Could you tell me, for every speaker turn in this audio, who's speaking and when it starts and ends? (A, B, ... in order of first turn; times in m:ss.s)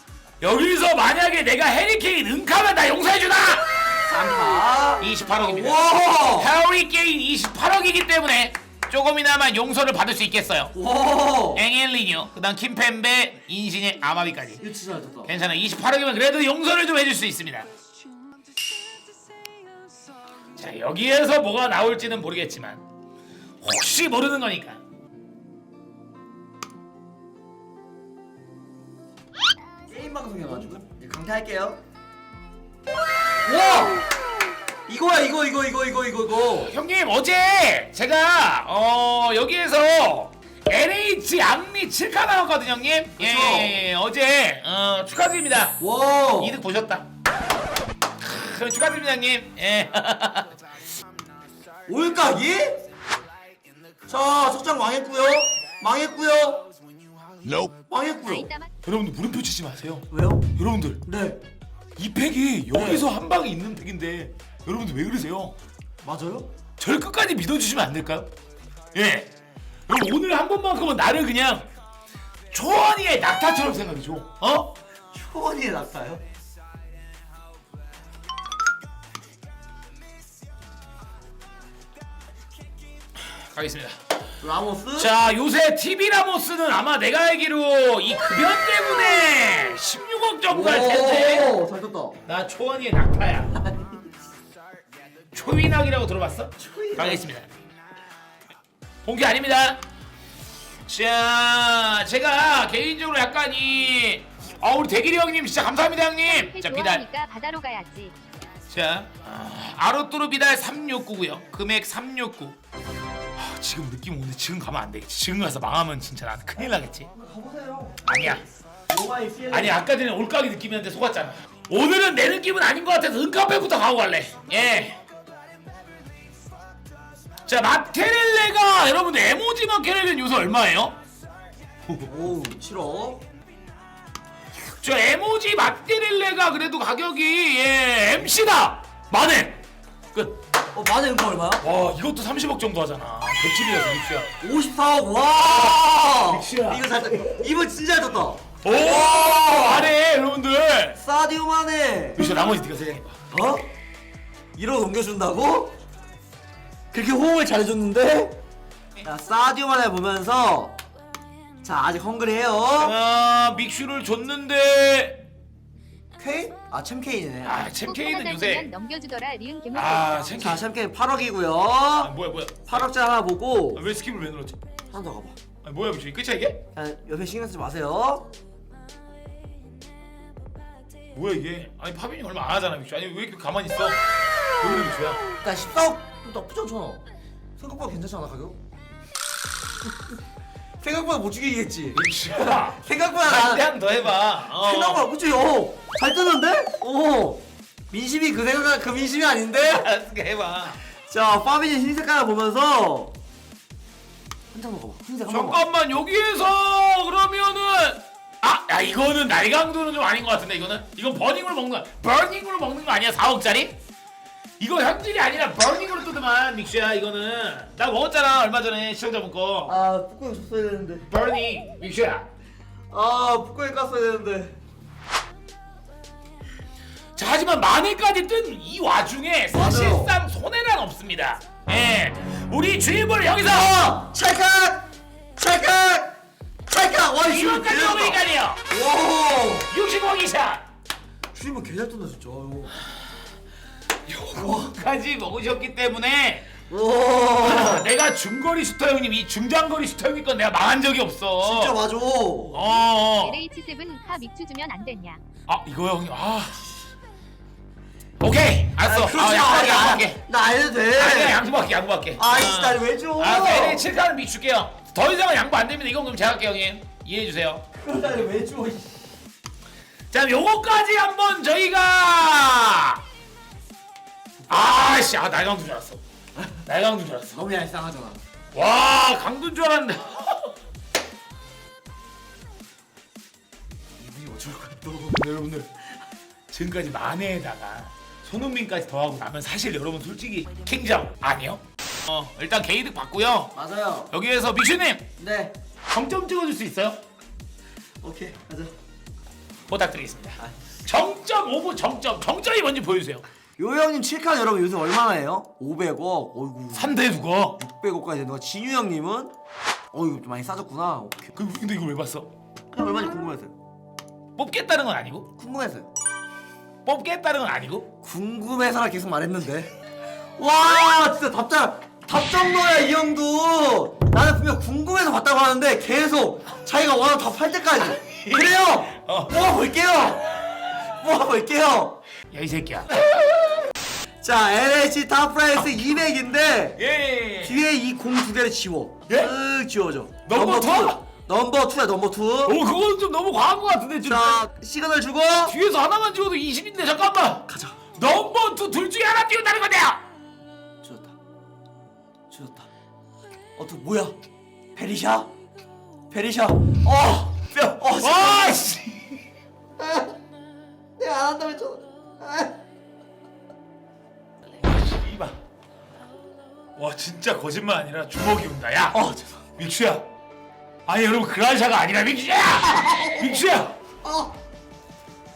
0:00.4-0:03.8 A
0:04.0-0:06.5 B
0:05.0-0:10.7 A
0:10.7-0:11.6 B
0:11.5-0:14.6 A
0:14.6-0:15.3 B
0:15.2-0:17.7 A
0:20.6-0:22.8 A
0:23.6-0:24.8 A
0:29.9-0:31.8 B
0:33.4-0:34.0 B
0:34.9-0:36.7 B
0:36.5-0:45.8 A
0:43.2-0:43.8 B
0:45.8-0:46.6 B
0:46.4-0:47.1 A
0:48.2-0:50.6 A
0:51.9-0:52.8 B
0:54.1-0:56.6 B
0:57.9-0:58.5 B
0:58.2-0:58.7 C
0:58.8-1:01.0 A
1:00.1-1:00.5 B
1:01.0-1:01.4 B
1:02.0-1:05.6 A
1:02.7-1:03.0 B
1:06.0-1:06.5 B
1:06.8-1:08.3 A
1:08.9-1:09.3 A
1:09.9-1:11.7 A
1:12.5-1:14.7 A
1:15.1-1:16.2 B
1:23.3-1:24.0 A
1:24.4-1:25.1 B
1:25.0-1:31.5 A
1:30.5-1:32.2 B
1:32.2-1:33.6 A
1:33.6-1:33.9 B
1:35.3-1:37.5 A
1:36.6-1:37.3 B
1:39.0-1:39.8 A
1:40.9-1:47.0 A
1:46.2-1:48.1 C
1:48.7-1:52.6 A
1:53.4-1:57.1 A
1:57.1-1:59.8 B
1:58.0-1:58.4 A
1:59.5-2:05.0 A
2:07.5-2:11.0 A
2:12.0-2:13.2 B
2:14.7-2:19.6 A
2:20.1-2:20.4 A
2:20.7-2:21.6 B
2:21.6-2:24.3 A
2:24.4-2:29.9 B
2:25.4-2:26.9 A
2:28.6-2:31.0 A
2:31.0-2:32.2 B
2:32.2-2:33.1 A
2:33.3-2:33.7 B
2:34.6-2:35.8 B
2:36.9-2:38.4 B
2:39.0-2:40.8 B
2:41.6-2:42.9 B
2:42.8-2:45.2 A
2:46.2-2:47.6 B
2:47.4-2:48.7 A
2:47.8-2:50.4 C
2:49.7-2:50.6 A
2:50.4-2:52.1 B
2:52.0-2:52.9 A
2:52.7-2:53.8 B
2:53.7-2:54.6 A
2:54.9-2:55.4 B
2:55.6-2:56.6 A
2:56.7-2:58.3 B
3:01.1-3:04.0 A
3:04.6-3:05.2 A
3:05.4-3:07.0 B
3:07.6-3:08.6 B
3:10.8-3:13.7 B
3:11.9-3:15.0 A
3:14.5-3:19.9 B
3:19.6-3:20.8 A
3:21.1-3:23.1 B
3:24.5-3:25.6 B
3:25.2-3:33.7 A
3:34.6-3:39.8 A
3:39.6-3:41.1 B
3:41.1-3:42.3 A
3:42.9-3:44.6 B
3:47.2-3:54.0 A
3:49.5-3:50.1 B
3:53.5-3:59.7 B
3:57.2-3:58.6 A
3:59.7-4:00.6 A
4:01.3-4:02.7 B
4:04.1-4:06.5 A
4:04.3-4:04.8 B
4:06.7-4:07.9 B
4:07.4-4:11.7 A
4:11.4-4:12.7 B
4:12.5-4:13.4 A
4:13.2-4:15.2 C
4:15.5-4:16.7 A
4:18.2-4:20.2 A
4:18.8-4:21.4 B
4:20.9-4:27.6 A
4:22.2-4:23.9 B
4:27.7-4:29.1 B
4:30.1-4:33.0 A
4:34.4-4:34.7 B
4:34.5-4:36.0 A
4:36.6-4:37.4 A
4:37.3-4:38.2 B
4:38.5-4:40.5 A
4:44.0-4:45.2 B
4:45.1-4:45.7 A
4:46.5-4:53.5 A
4:53.5-4:54.1 B
4:54.1-4:55.1 A
4:55.2-4:55.6 B
4:55.9-4:57.0 A
4:58.0-4:58.7 B
4:59.7-5:03.2 A
5:03.6-5:07.0 B
5:06.7-5:07.6 A
5:07.6-5:09.3 B
5:09.9-5:11.3 B
5:11.3-5:12.3 A
5:12.7-5:13.5 B
5:14.4-5:15.3 A
5:15.4-5:15.9 B
5:16.8-5:17.9 A
5:18.0-5:19.7 B
5:20.4-5:32.0 B
5:28.0-5:29.4 A
5:32.3-5:33.5 A
5:34.2-5:36.8 B
5:36.8-5:37.6 A
5:37.4-5:42.6 B
5:40.2-5:41.0 A
5:42.4-5:44.5 A
5:44.0-5:45.6 B
5:45.4-5:50.0 A
5:47.5-5:47.8 B
5:50.8-5:51.1 B
5:52.3-5:52.7 B
5:53.6-5:54.2 B
5:54.7-5:55.3 B
5:56.1-5:58.7 B
5:58.0-5:59.2 A
5:59.8-6:00.1 B
6:01.0-6:02.6 B
6:04.6-6:05.4 A
6:06.8-6:09.0 A
6:08.9-6:09.4 B
6:09.6-6:10.0 A
6:10.8-6:13.7 A
6:12.8-6:13.5 B
6:14.0-6:14.3 B